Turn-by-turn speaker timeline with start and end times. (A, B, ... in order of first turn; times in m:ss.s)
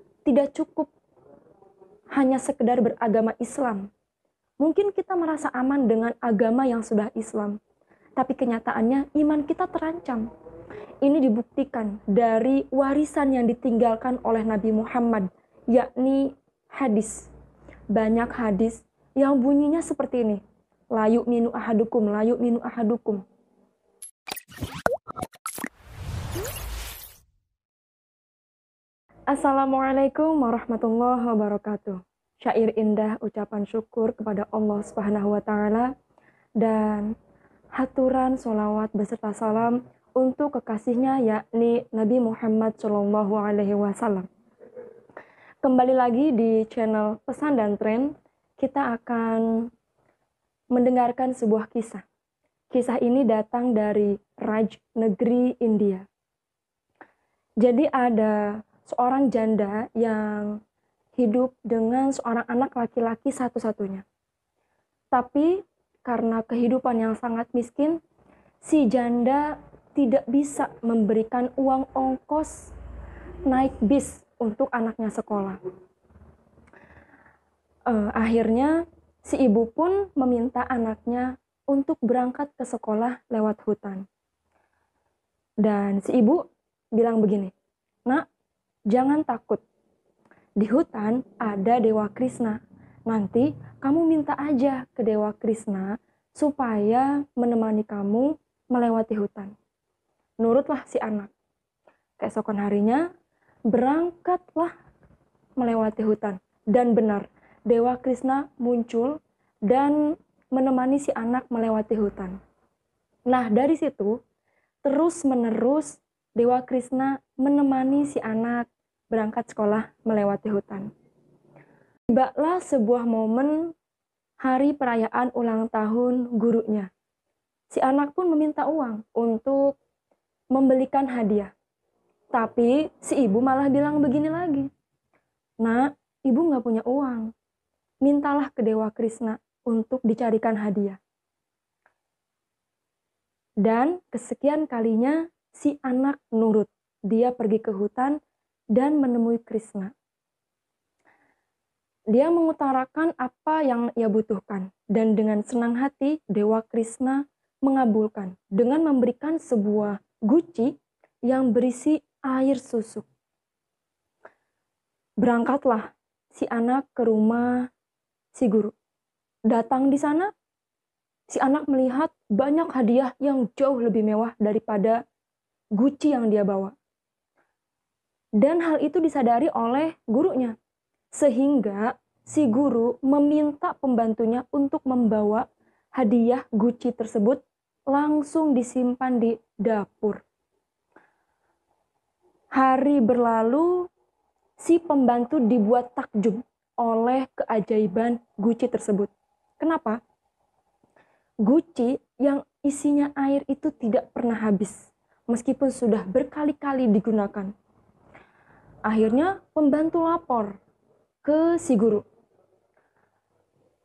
0:00.2-0:00.9 A
0:02.2-0:03.9 A
0:04.6-0:07.6 A
0:08.2-0:10.3 A
0:11.0-0:17.3 A
0:17.9-0:20.4 A
0:20.9-0:23.2 A
0:29.3-0:35.9 A
0:36.6-0:37.1 A
0:37.8-0:44.3 A
0:45.6-0:49.7 A
0:50.7-0:52.0 A
0:52.7-0:56.1 A
0:57.6-1:00.6 A
1:01.2-1:04.0 A
1:05.1-1:08.0 A
1:08.6-1:12.7 A
1:13.5-1:15.6 A
1:17.9-1:24.1 A
1:25.6-1:27.5 A
1:28.9-1:29.6 A
1:30.6-1:39.5 A
1:40.4-1:41.3 A
1:42.2-1:43.0 A
1:43.7-1:44.7 A
1:45.6-1:52.4 A
1:53.3-1:54.2 A
1:54.8-2:00.9 A
2:02.1-2:03.7 A
2:04.4-2:06.9 A
2:07.7-2:09.8 A
2:10.5-2:11.5 A
2:12.3-2:14.7 A
2:15.6-2:17.3 A
2:18.0-2:21.0 A
2:23.6-2:28.2 A
2:28.7-2:29.9 A
2:32.1-2:40.7 A
2:41.3-2:43.1 A
2:45.2-2:47.7 A
2:48.4-2:48.7 A
2:49.5-2:50.3 A
2:51.3-2:55.0 A
2:55.8-2:56.7 A
2:58.4-3:00.6 A
3:01.2-3:05.5 A
3:06.0-3:10.2 A
3:12.6-3:13.8 A
3:14.6-3:20.0 A
3:21.4-3:24.8 A
3:25.3-3:27.5 A
3:28.9-3:30.6 A
3:31.2-3:32.0 A